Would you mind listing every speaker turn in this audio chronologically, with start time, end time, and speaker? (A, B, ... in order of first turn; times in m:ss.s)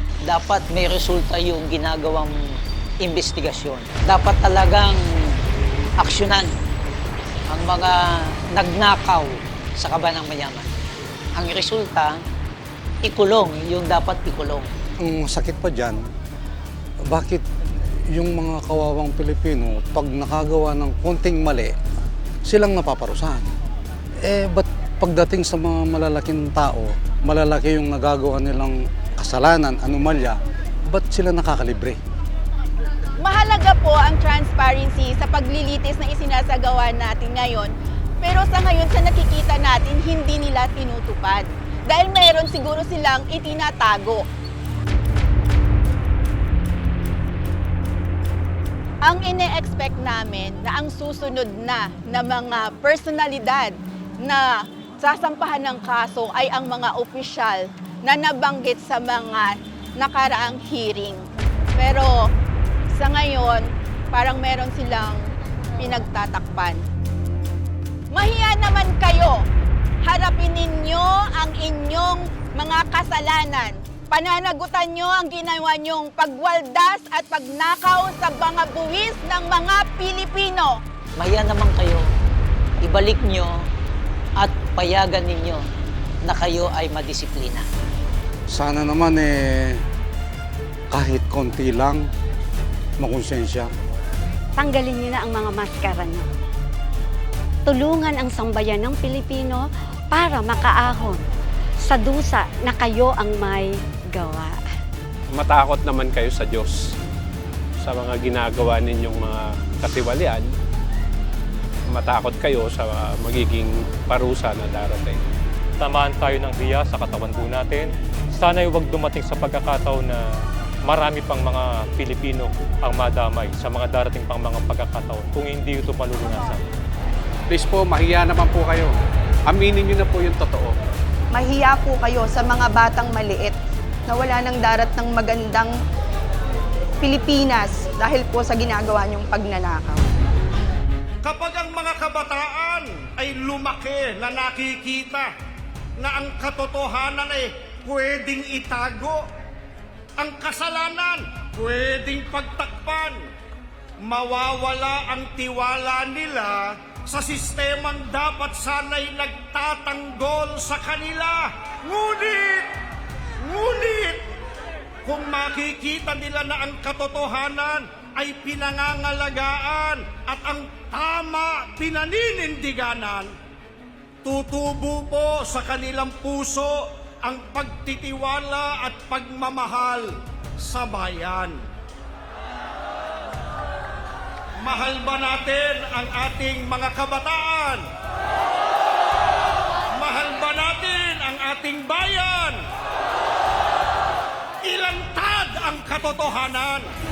0:00.2-0:02.3 A
0:03.0-0:05.0 A
0:06.0-0:06.5 A
0:07.5-0:08.0 A
0:08.5-0:10.7 A
0:11.4-0:12.2 A
0:13.0-0:14.7 A
0:15.0-0:16.0 B
0:17.0-0:17.4 B
0:18.1-0:21.8 B
0:22.4-0:23.5 B
0:24.2-0:32.0 B
0:33.2-0:37.7 C
0:38.2-0:44.2 C
0:49.0-0:54.5 C
0:55.0-1:01.2 C
1:01.8-1:02.2 C
1:02.9-1:05.2 C
1:05.8-1:06.8 C
1:08.1-1:09.4 C
1:10.0-1:20.8 C
1:21.2-1:22.0 A
1:22.8-1:23.6 A
1:24.4-1:25.6 A
1:26.2-1:27.6 A
1:28.5-1:29.8 B
1:30.9-1:32.0 B
1:33.0-1:33.7 B
1:34.6-1:36.3 D
1:37.6-1:41.2 D
1:41.8-1:44.6 D
1:45.3-1:46.8 E
1:47.8-1:50.5 E
1:51.9-1:55.2 E
1:55.8-2:00.2 F
2:00.8-2:06.6 F
2:07.5-2:10.8 G
2:11.3-2:13.5 H
2:14.1-2:15.7 H
2:17.0-2:20.0 H
2:21.2-2:25.3 G
2:26.0-2:29.2 G
2:30.2-2:33.2 G
2:34.0-2:42.7 G
2:43.4-2:44.2 G
2:45.0-2:53.3 G
2:54.2-3:01.6 G
3:04.6-3:07.8 G
3:09.9-3:12.6 G
3:14.6-3:16.9 G